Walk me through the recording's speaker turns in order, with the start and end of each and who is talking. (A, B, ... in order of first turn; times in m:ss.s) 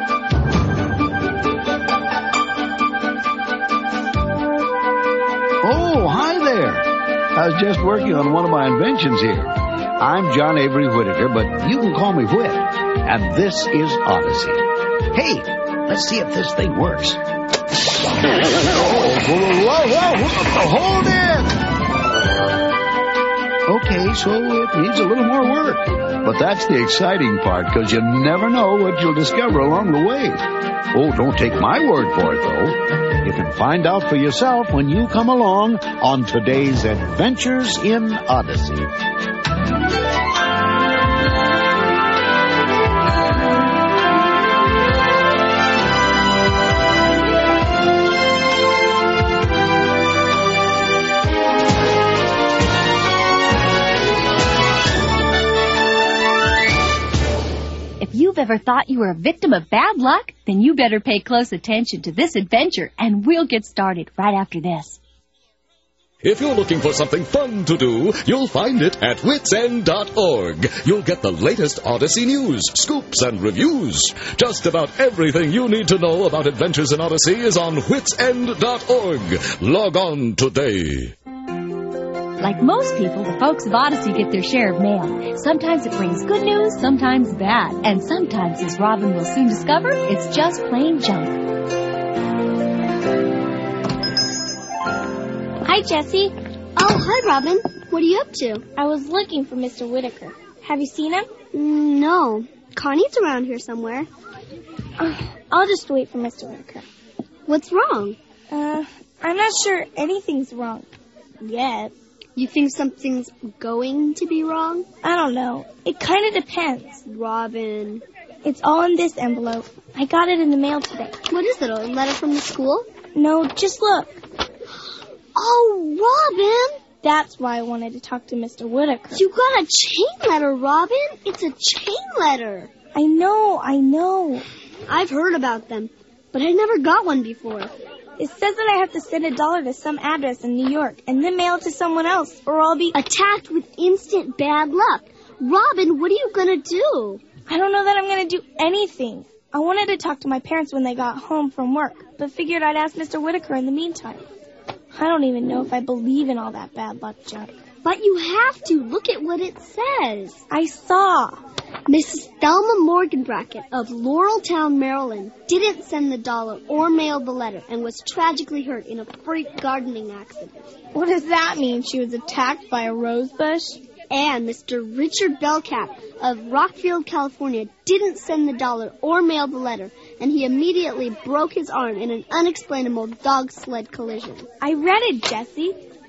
0:05.6-0:17.2 A
0:18.2-0:21.6 A
0:23.7-0:38.9 A
0:58.0-1:05.0 B
1:06.2-1:21.1 C
1:22.4-1:31.4 B
1:35.6-1:36.3 D
1:36.8-1:38.6 E
1:38.8-1:41.3 D
1:41.5-1:44.1 E
1:45.0-1:46.9 D
1:47.5-1:48.2 E
1:48.5-1:50.9 D
1:51.4-1:51.9 D
1:52.4-1:54.9 E
1:55.0-1:57.0 D
1:57.0-1:58.0 E
1:58.4-2:01.2 D
2:01.3-2:02.9 E
2:03.2-2:04.2 D
2:05.4-2:06.8 E
2:07.0-2:09.2 D
2:09.1-2:12.7 E
2:12.9-2:14.4 D
2:14.9-2:17.7 E
2:18.2-2:23.0 D
2:22.9-2:27.2 E
2:27.5-2:34.3 D
2:34.9-2:37.5 D
2:37.8-2:40.4 E
2:40.5-2:41.4 D
2:41.9-2:50.7 E
2:50.9-2:53.8 D
2:54.1-3:04.5 E
3:04.6-3:05.8 D